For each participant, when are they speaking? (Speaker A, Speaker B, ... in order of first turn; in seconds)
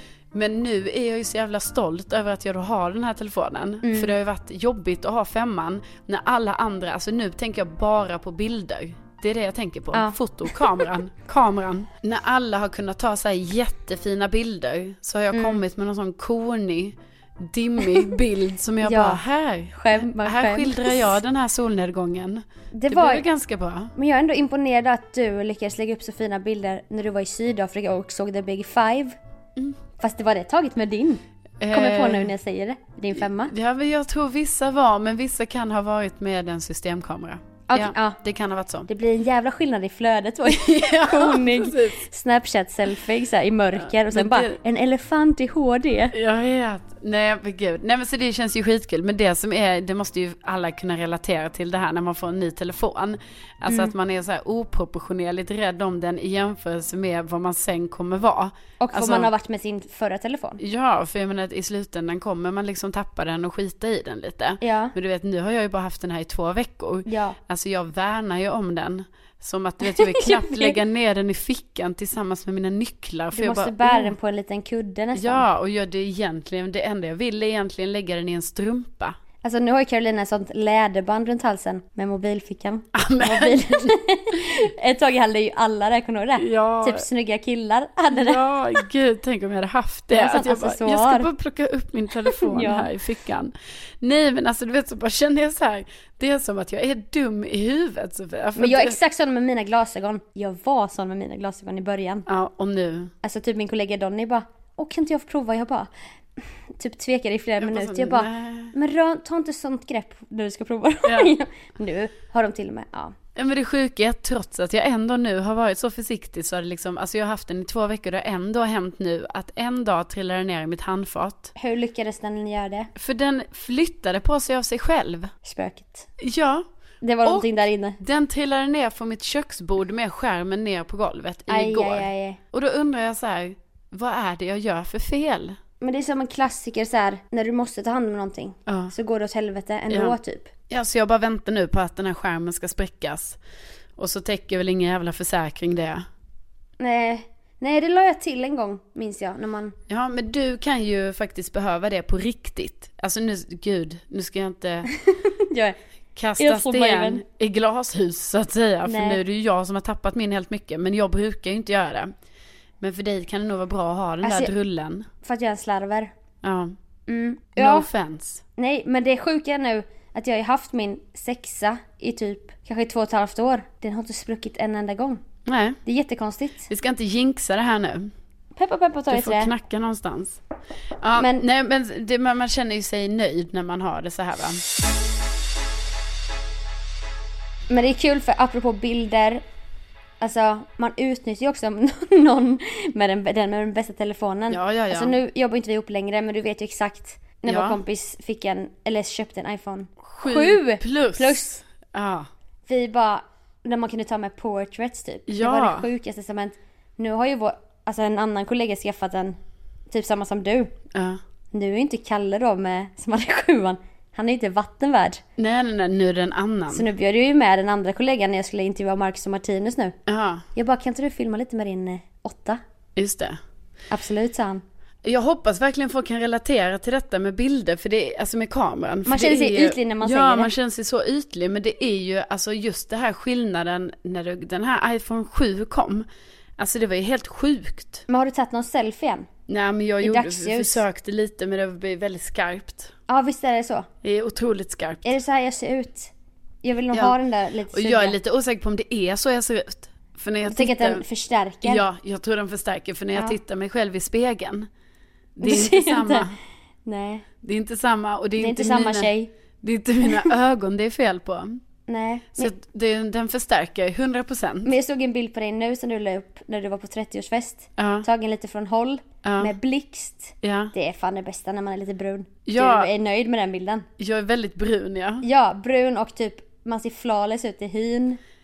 Speaker A: 0.3-23.9, 31.6-32.3, 33.2-38.9, 40.5-42.0, 43.8-44.6, 46.1-59.3, 60.6-74.1, 75.2-79.2, 82.9-84.6, 86.4-87.0, 88.1-99.0, 102.3-103.1, 107.6-108.7, 111.0-111.3, 113.4-121.5, 123.0-125.3, 126.2-126.6, 127.2-135.6, 138.7-138.9, 139.9-140.2, 140.7-143.4, 144.0-146.0, 149.9-154.9, 156.2-162.1, 162.8-165.1, 166.4-166.8, 167.6-168.4, 175.4-175.8, 176.7-178.1, 179.1-180.4, 181.0-184.6, 194.5-195.2, 197.5-197.8, 200.0-202.3, 205.3-205.9, 210.9-211.2, 215.4-216.9, 220.1-220.4, 223.0-223.4, 225.0-236.1, 236.6-238.1, 239.5-242.9, 244.0-245.2, 247.7-251.0, 251.6-254.7, 255.4-256.4, 257.4-261.6, 262.4-264.7, 267.8-268.1, 269.2-269.5, 270.4-270.7, 272.5-272.9, 274.0-275.2
Speaker B: 3.8-4.1, 9.9-10.9, 15.3-15.6, 18.8-19.2, 19.7-21.2, 22.7-23.2, 23.9-29.1, 30.0-33.5, 37.7-38.2, 38.9-46.1, 53.7-53.9, 58.8-60.6, 64.6-64.9, 67.1-67.4, 69.8-70.8, 73.3-75.5, 79.4-88.8, 90.1-91.3, 92.3-92.9, 98.6-102.3, 103.2-105.9, 106.8-113.2, 121.6-122.9, 125.4-126.1, 127.0-128.0, 131.5-132.4, 135.8-140.5, 146.8-149.8, 154.9-155.8, 156.4-157.2, 158.8-159.2, 164.2-164.5, 165.2-166.1, 167.1-167.9, 168.6-175.2, 175.8-176.7, 178.6-179.5, 181.2-181.4, 187.7-189.4, 190.2-201.6, 202.7-209.4, 209.9-210.7, 211.5-215.2, 216.7-219.9, 220.6-222.6, 223.9-224.6, 229.1-230.5, 238.1-239.3, 240.0-240.8, 243.1-243.9, 245.0-246.1, 246.6-248.2, 250.5-251.8, 255.4-256.3, 256.9-257.2, 258.4-259.3, 260.0-260.3, 261.9-262.5, 264.6-273.9, 275.2-278.2